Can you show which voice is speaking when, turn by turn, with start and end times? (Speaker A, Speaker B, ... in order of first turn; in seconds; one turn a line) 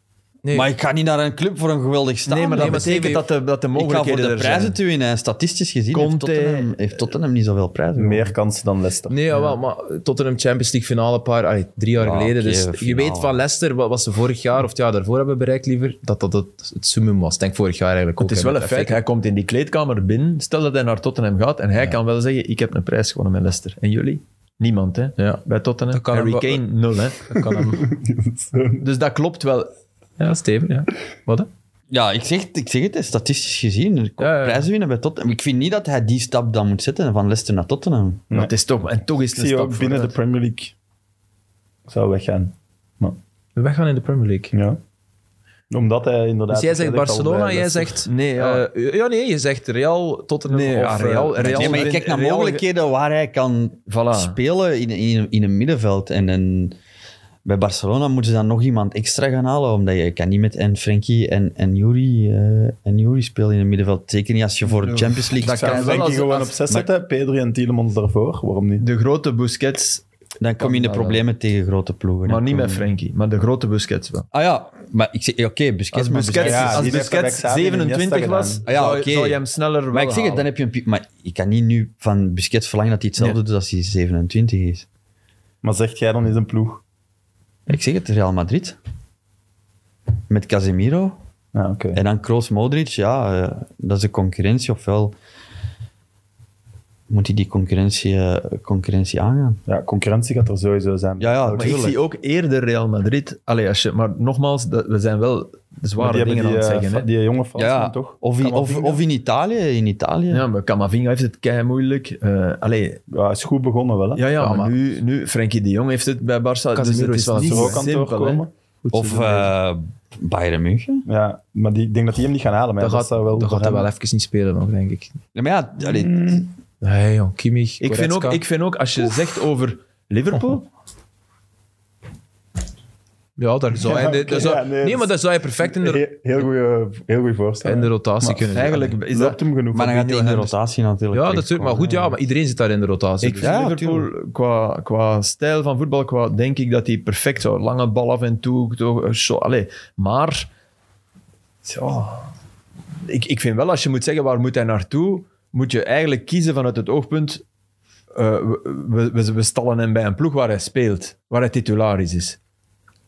Speaker A: 0.4-0.7
Speaker B: 0.5-3.1
Speaker C: 2.3-4.8
Speaker A: 2.5-3.3
Speaker B: 3.8-8.3
Speaker C: 5.9-7.1
Speaker D: 8.0-9.2
Speaker A: 9.1-19.0
Speaker B: 12.0-13.4
Speaker C: 18.2-27.2
Speaker A: 25.2-26.6
Speaker A: 27.2-27.9
Speaker D: 27.4-28.9
Speaker C: 28.8-29.7
Speaker A: 30.2-31.5
Speaker B: 31.9-38.3
Speaker A: 34.2-34.7
Speaker C: 38.3-40.1
Speaker D: 39.1-40.7
Speaker D: 41.9-43.2
Speaker A: 43.6-44.5
Speaker D: 44.5-44.8
Speaker D: 45.7-48.0
Speaker A: 46.5-51.9
Speaker C: 48.0-48.7
Speaker C: 50.5-52.7
Speaker B: 51.5-56.8
Speaker C: 53.9-54.4
Speaker B: 57.5-66.7
Speaker C: 64.8-66.8
Speaker D: 65.3-68.9
Speaker C: 68.8-70.0
Speaker B: 70.4-72.9
Speaker C: 70.6-71.2
Speaker C: 72.3-74.3
Speaker B: 74.3-77.0
Speaker C: 75.9-80.5
Speaker D: 76.4-78.6
Speaker B: 78.7-84.9
Speaker D: 85.6-86.8
Speaker B: 87.7-88.8
Speaker B: 90.3-91.2
Speaker D: 91.5-92.0
Speaker B: 91.9-95.1
Speaker B: 97.1-99.6
Speaker D: 99.7-102.0
Speaker B: 101.2-102.0
Speaker C: 101.5-107.1
Speaker D: 106.0-109.0
Speaker B: 107.6-110.5
Speaker C: 110.3-113.0
Speaker D: 113.1-114.2
Speaker C: 114.2-118.5
Speaker A: 114.4-114.7
Speaker A: 116.8-117.8
Speaker D: 117.4-118.5
Speaker A: 118.8-119.5
Speaker B: 118.9-121.1
Speaker D: 121.1-123.9
Speaker A: 122.8-125.2
Speaker B: 125.3-126.5
Speaker D: 125.8-126.5
Speaker A: 126.8-128.4
Speaker C: 127.8-130.7
Speaker A: 133.4-136.1
Speaker D: 133.8-135.1
Speaker D: 135.6-140.0
Speaker A: 137.6-138.9
Speaker C: 138.5-140.5
Speaker B: 139.7-142.2
Speaker A: 141.1-143.6
Speaker C: 143.2-150.5
Speaker B: 143.4-144.1
Speaker C: 151.7-152.3
Speaker C: 153.1-157.4
Speaker C: 158.1-162.4